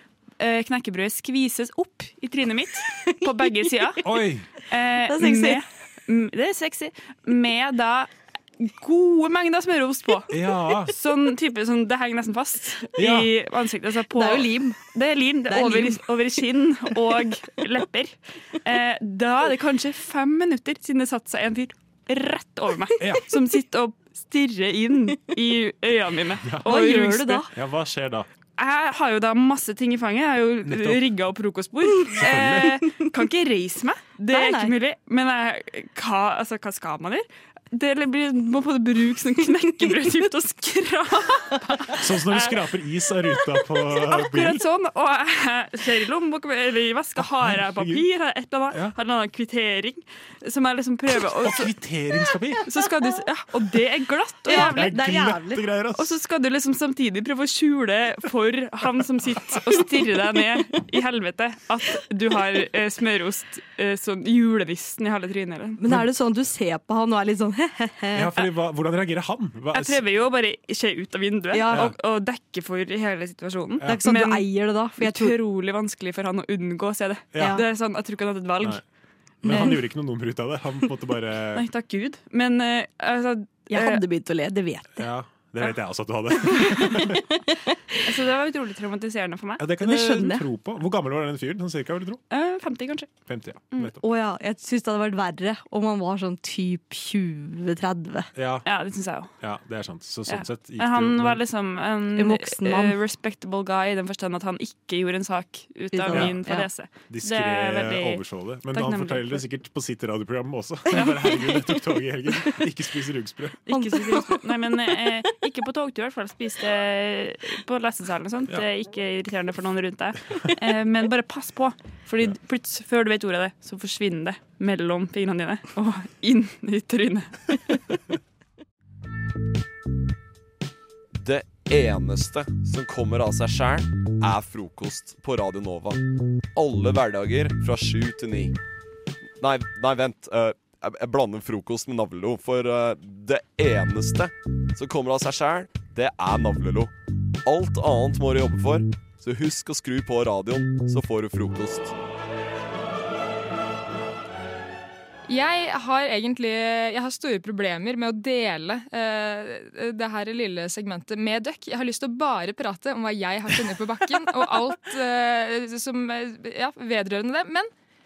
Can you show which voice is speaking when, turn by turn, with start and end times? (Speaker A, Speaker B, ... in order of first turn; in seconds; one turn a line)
Speaker A: 0.4-4.1
Speaker B: 3.2-3.7
Speaker C: 4.0-4.5
Speaker A: 4.7-27.5
Speaker B: 5.0-5.6
Speaker C: 10.3-10.9
Speaker C: 13.0-13.3
Speaker B: 14.1-14.8
Speaker B: 15.5-16.4
Speaker C: 26.4-26.8
Speaker B: 26.6-27.5
Speaker C: 27.5-28.3
Speaker A: 28.6-42.5
Speaker C: 30.6-31.0
Speaker C: 32.1-32.8
Speaker B: 34.3-34.8
Speaker B: 39.6-40.1
Speaker C: 42.0-44.6
Speaker A: 43.9-51.7
Speaker C: 47.2-48.1
Speaker C: 48.7-49.0
Speaker C: 51.3-52.7
Speaker A: 52.7-55.1
Speaker B: 54.5-55.8
Speaker C: 54.6-56.2
Speaker A: 56.0-65.8
Speaker B: 65.8-68.3
Speaker C: 68.1-70.0
Speaker A: 69.7-78.8
Speaker B: 71.5-71.9
Speaker C: 71.7-71.9
Speaker C: 73.8-74.0
Speaker B: 73.8-75.4
Speaker C: 77.3-77.6
Speaker B: 77.4-77.7
Speaker C: 79.4-81.6
Speaker B: 79.5-79.8
Speaker A: 81.5-84.0
Speaker B: 83.7-85.1
Speaker C: 85.0-87.1
Speaker B: 86.4-87.2
Speaker B: 87.7-88.2
Speaker A: 88.1-89.7
Speaker C: 89.6-92.2
Speaker B: 89.7-90.5
Speaker A: 92.3-93.2
Speaker C: 93.2-94.0
Speaker B: 94.0-98.3
Speaker C: 98.4-98.7
Speaker A: 98.7-99.3
Speaker C: 99.4-101.4
Speaker A: 100.3-109.4
Speaker B: 102.1-103.0
Speaker B: 105.9-106.7
Speaker C: 106.1-106.5
Speaker C: 107.0-113.6
Speaker B: 111.0-111.8
Speaker A: 113.7-127.4
Speaker B: 113.7-114.5
Speaker D: 131.2-136.0
Speaker D: 136.6-138.6
Speaker D: 139.4-146.9
Speaker D: 147.4-151.9
Speaker E: 155.3-167.7